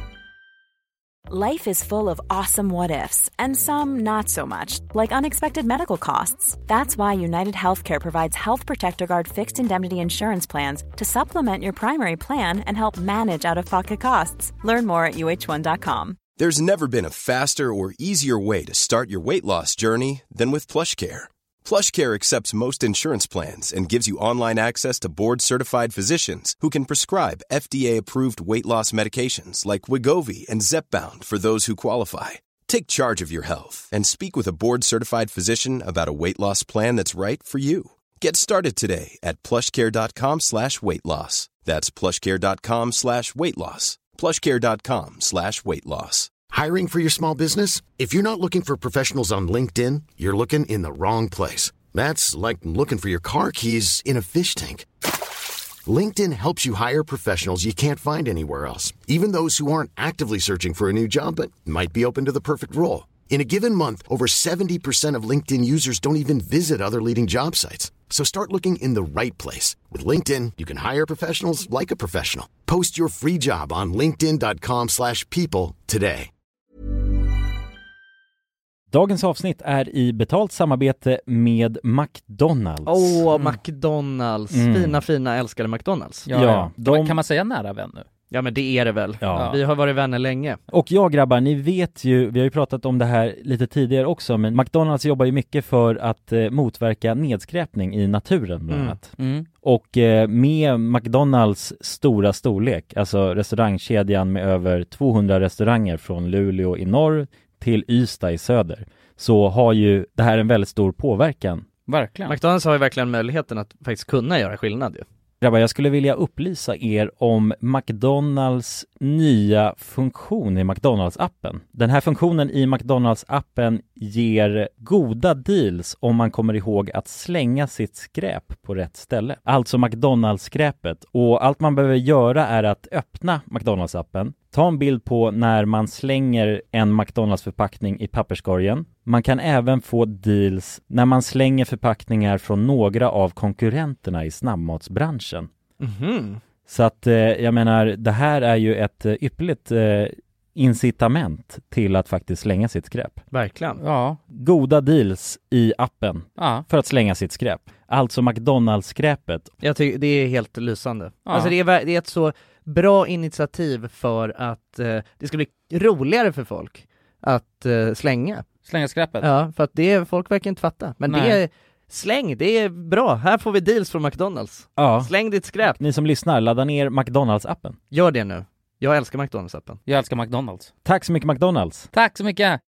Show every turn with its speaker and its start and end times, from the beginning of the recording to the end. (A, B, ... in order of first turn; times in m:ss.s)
0:01.3-0:16.2 A
0:16.4-0:46.4 B
0:46.5-0:54.9 C
0:55.8-1:16.3 C
1:18.9-1:23.2 D
1:22.9-1:26.3 E
1:24.5-1:25.0 D
1:26.3-1:28.1 F
1:26.3-1:27.2 D
1:28.3-1:30.6 E
1:29.2-1:29.6 D
1:29.3-1:29.6 F
1:30.7-1:51.7 D
1:38.7-1:39.5 F
1:51.9-1:52.4 F
1:52.3-1:55.0 E
1:55.4-2:25.5 D
2:25.8-2:26.4 E
2:26.7-2:33.2 D
2:33.3-2:33.8 E
2:33.8-2:34.2 F
2:34.3-2:39.5 D
2:36.4-2:36.6 F
2:39.6-2:48.5 E
2:41.3-2:41.5 F
2:48.7-2:49.3 F
2:49.2-2:55.8 E
2:51.1-2:51.4 F
2:54.8-2:55.1 D
2:55.6-2:57.8 D
2:57.9-2:59.8 E
2:59.9-3:00.7 F
3:00.8-3:01.9 D
3:01.9-3:02.6 F